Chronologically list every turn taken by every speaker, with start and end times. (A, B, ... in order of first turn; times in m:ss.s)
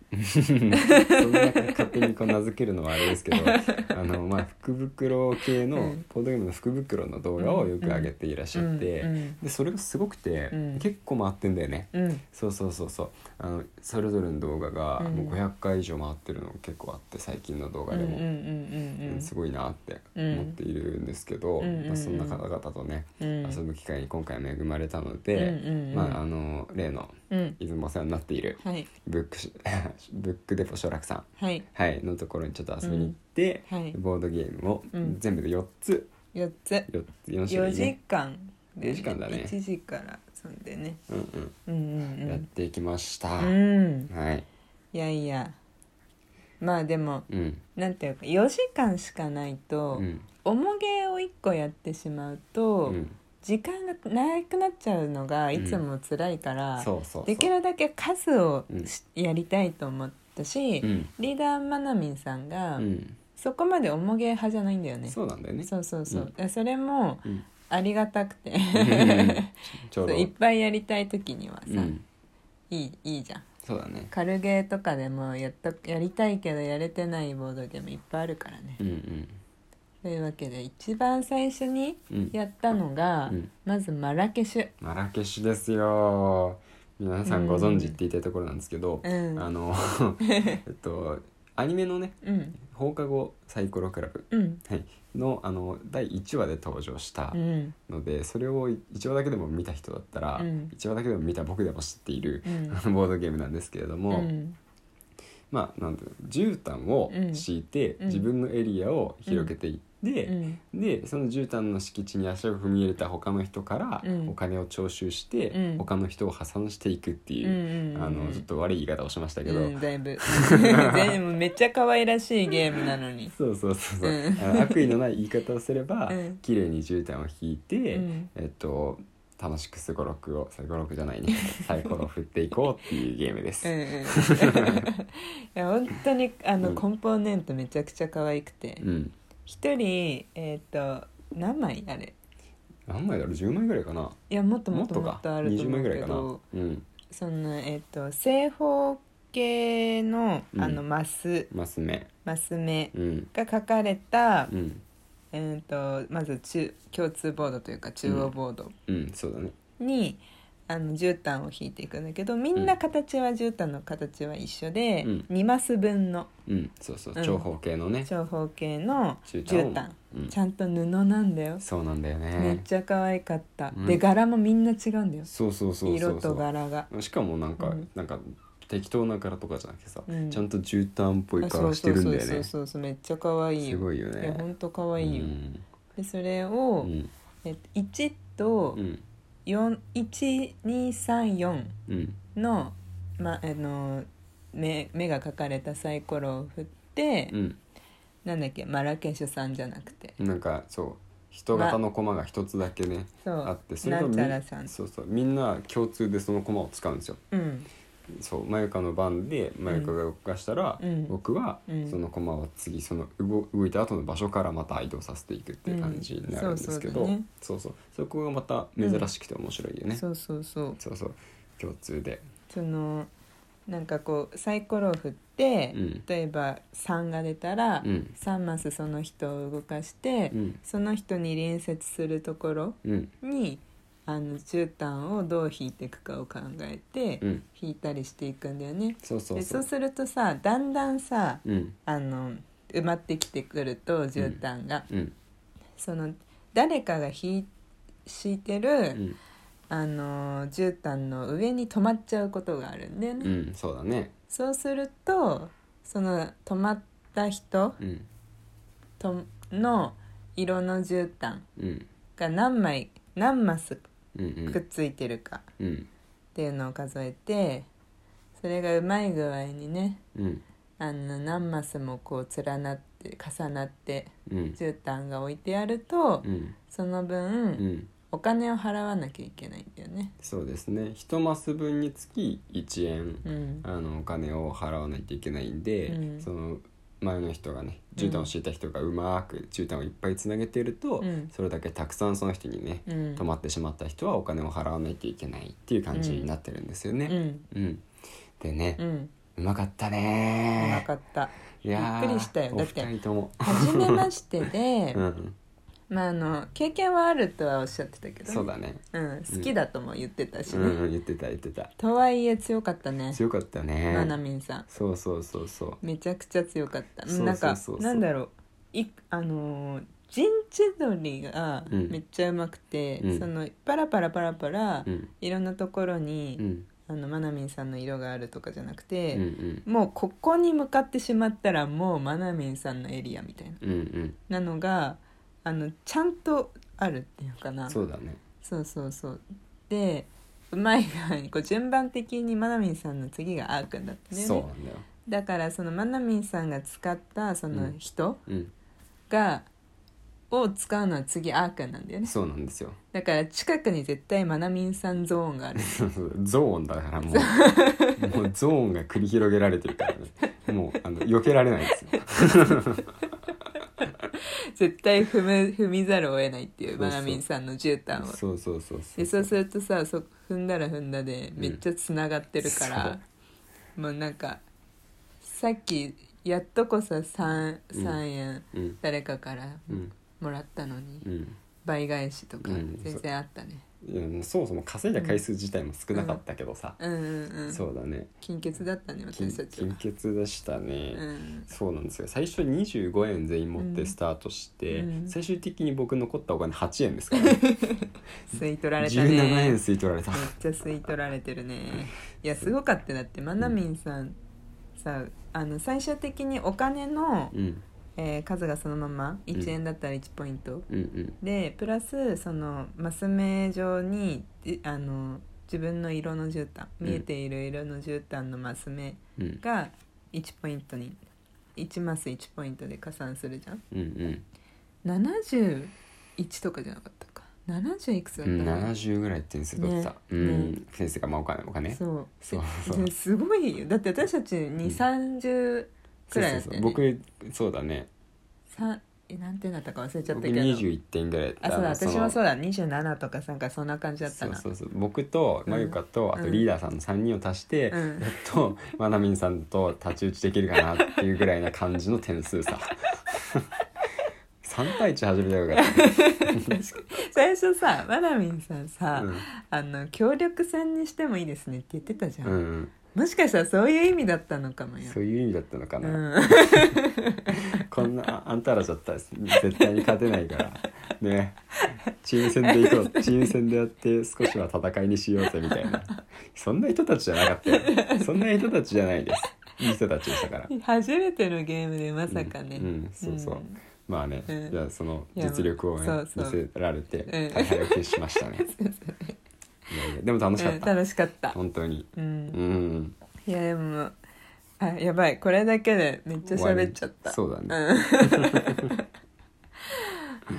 0:00.1-0:18.2 A
0:00.8-0:02.1 B
0:03.3-0:03.9 B
0:05.7-0:06.0 B
0:07.4-0:09.4 B
0:10.5-0:10.8 B
0:11.9-0:12.2 B
0:15.0-0:15.4 B
0:17.9-0:19.3 B
0:19.0-0:36.1 A
0:20.1-0:20.6 B
0:21.6-0:22.4 B
0:23.2-0:23.6 B
0:25.3-0:26.2 B
0:27.3-0:27.6 B
0:28.6-0:28.9 B
0:31.4-0:31.7 B
0:32.8-0:33.2 B
0:33.7-0:34.0 B
0:34.9-0:35.2 B
0:36.3-0:36.9 B
0:36.9-0:37.9 A
0:37.5-0:41.0 B
0:38.8-0:39.6 A
0:41.1-0:41.5 A
0:41.7-0:42.4 B
0:42.2-0:43.6 A
0:43.4-0:44.1 B
0:44.1-0:44.5 A
0:44.9-0:45.6 B
0:46.6-1:11.9 B
0:47.3-0:47.6 A
0:49.9-0:50.2 A
0:52.8-0:53.2 A
0:55.5-0:55.8 A
0:56.8-0:57.5 A
1:00.8-1:01.1 A
1:02.8-1:03.2 A
1:05.1-1:06.3 A
1:08.8-1:10.3 A
1:11.7-1:12.0 A
1:12.7-1:13.4 B
1:13.6-1:14.1 A
1:14.1-1:18.8 B
1:18.8-1:19.4 A
1:20.0-1:24.7 B
1:22.1-1:22.3 A
1:24.8-1:44.3 A
1:27.2-1:28.0 B
1:29.0-1:29.5 B
1:30.2-1:30.6 B
1:32.2-1:32.6 B
1:34.3-1:34.6 B
1:37.3-1:37.8 B
1:40.4-1:40.7 B
1:42.4-1:42.8 B
1:44.1-1:44.6 B
1:45.5-2:01.2 A
1:47.1-1:47.4 B
1:48.0-1:48.3 B
1:49.2-1:49.5 B
1:50.2-1:50.6 B
1:54.0-1:54.3 B
1:55.5-1:55.8 B
1:57.4-1:58.4 B
1:59.4-2:03.3 B
2:03.3-2:14.8 A
2:04.0-2:04.9 B
2:06.1-2:06.4 B
2:07.9-2:08.3 B
2:11.4-2:11.9 B
2:13.6-2:18.8 B
2:18.8-2:19.1 A
2:19.5-2:22.2 B
2:22.9-2:24.2 A
2:24.3-2:26.4 B
2:24.7-2:26.9 A
2:27.1-2:31.5 B
2:30.5-2:30.8 A
2:31.5-2:32.1 A
2:32.2-2:34.5 B
2:32.9-2:33.3 A
2:34.5-2:34.8 A
2:35.3-2:38.7 B
2:38.0-2:38.3 A
2:38.9-2:39.5 A
2:39.8-2:46.3 B
2:46.5-2:48.1 A
2:47.2-2:47.4 B
2:48.0-2:51.6 B
2:49.3-2:50.3 A
2:51.6-2:52.6 A
2:52.4-2:55.3 B
2:53.7-2:54.0 A
2:55.3-3:02.5 A
2:55.8-2:56.9 B
2:57.6-2:57.8 B
3:00.1-3:00.4 B
3:01.4-3:05.4 B
3:03.6-3:04.5 A
3:05.0-3:05.6 A
3:06.0-3:06.9 B
3:06.8-3:07.1 A
3:07.4-3:08.8 B
3:08.7-3:09.0 A
3:09.5-3:11.8 B
3:11.9-3:12.2 A
3:12.3-3:17.4 B
3:17.3-3:17.6 A
3:18.2-3:20.2 B
3:20.2-3:27.2 A
3:21.5-3:21.8 B
3:23.2-3:24.7 B
3:27.3-3:27.7 B
3:28.1-3:40.0 A
3:29.7-3:29.9 B
3:30.8-3:31.2 B
3:31.7-3:32.0 B
3:35.7-3:37.3 B
3:38.8-3:39.1 B
3:39.9-3:40.8 B
3:40.8-3:42.2 A
3:42.5-3:43.1 B
3:43.7-4:04.9 B
3:45.7-3:46.0 A
3:47.8-3:48.2 A
3:50.3-3:50.6 A
3:52.8-3:53.1 A
3:59.0-3:59.7 A
4:01.4-4:01.8 A
4:04.2-4:05.2 A
4:05.8-4:07.5 B
4:08.0-4:09.0 B
4:09.7-4:13.3 B
4:13.2-4:14.1 A
4:14.3-4:17.8 B
4:17.8-4:18.1 A
4:19.0-4:21.5 B
4:21.6-4:21.9 A
4:22.2-4:23.8 B
4:24.1-4:24.6 A
4:24.5-4:25.5 B
4:25.6-4:25.9 A
4:26.4-4:27.7 B
4:28.4-4:30.0 B
4:30.1-4:30.4 A
4:30.8-4:40.1 B
4:34.3-4:34.6 A
4:36.2-4:36.6 A
4:37.6-4:37.9 A
4:40.2-4:57.8 A
4:43.2-4:43.6 B
4:45.9-4:46.3 B
4:48.0-4:48.3 B
4:51.0-4:51.3 B
4:52.9-4:53.2 B
4:55.9-4:56.3 B
4:57.1-4:57.5 B
4:58.4-4:58.8 A
4:58.8-4:59.1 B
4:59.4-5:00.9 A
5:00.6-5:02.9 B
5:01.6-5:04.1 A
5:03.4-5:05.0 B
5:04.9-5:05.4 A
5:05.9-5:10.8 B
5:08.2-5:09.5 A
5:10.5-5:11.7 A
5:11.8-5:13.2 B
5:13.1-5:15.8 A
5:13.9-5:14.6 B
5:15.8-5:33.6 B
5:17.0-5:18.0 A
5:21.7-5:22.0 A
5:23.0-5:23.3 A
5:26.4-5:26.7 A
5:29.1-5:29.6 A
5:33.6-5:34.2 A
5:34.3-5:37.8 B
5:37.7-5:38.2 A
5:38.4-5:44.5 B
5:44.1-5:44.9 A
5:45.0-5:48.2 B
5:47.5-5:48.5 A
5:49.1-5:49.5 B
5:50.3-5:52.1 B
5:52.0-5:52.8 A
5:52.9-5:55.8 B
5:55.6-6:02.9 A
5:57.1-5:58.1 B
6:01.9-6:03.1 B
6:04.5-6:08.2 B
6:06.7-6:07.2 A
6:08.0-6:09.3 A
6:09.0-6:13.0 B
6:12.4-6:13.0 A
6:13.8-6:14.4 B
6:15.2-6:21.0 B
6:17.7-6:18.0 A
6:18.5-6:18.8 A
6:21.0-6:21.4 A
6:21.6-6:23.6 B
6:22.4-6:23.0 A
6:23.8-6:26.8 A
6:25.0-6:25.2 B
6:25.9-6:26.2 B
6:26.8-6:27.6 B
6:27.5-6:28.1 A
6:28.2-6:29.8 B
6:29.1-6:37.5 A
6:30.9-6:31.5 B
6:33.6-6:33.9 B
6:34.7-6:35.1 B
6:37.2-6:39.6 B
6:38.8-6:40.3 A
6:40.1-6:44.2 B
6:44.8-6:47.4 B
6:47.3-6:47.6 A
6:48.0-6:50.7 B
6:50.7-6:51.2 A
6:51.2-7:01.0 B
6:59.2-6:59.4 A
7:01.6-7:03.6 B
7:03.7-7:04.2 A
7:04.8-7:08.7 B
7:08.2-7:12.9 A
7:09.6-7:10.6 B
7:11.7-7:16.8 B
7:16.1-7:17.9 A
7:18.5-7:20.6 B
7:20.1-7:22.2 A
7:21.4-7:24.4 B
7:24.1-7:33.5 A
7:25.5-7:26.5 B
7:27.7-7:28.2 B
7:34.4-7:36.8 A
7:35.5-7:42.4 B
7:39.0-7:39.2 A
7:42.2-7:42.7 A
7:42.9-7:45.0 B
7:44.8-7:46.8 A
7:45.8-7:47.6 B
7:47.5-8:00.5 A
7:51.7-7:53.4 B
7:55.2-7:56.0 B
7:57.5-7:58.3 B
8:00.5-8:03.6 B
8:02.1-8:08.5 A
8:04.3-8:04.6 B
8:05.2-8:06.4 B
8:07.1-8:09.2 B
8:09.7-8:10.8 A
8:10.4-8:11.4 B
8:11.3-8:13.0 A
8:12.0-8:12.4 B
8:13.2-8:13.9 B
8:14.6-8:18.8 B
8:16.3-8:18.7 A
8:19.7-8:20.2 B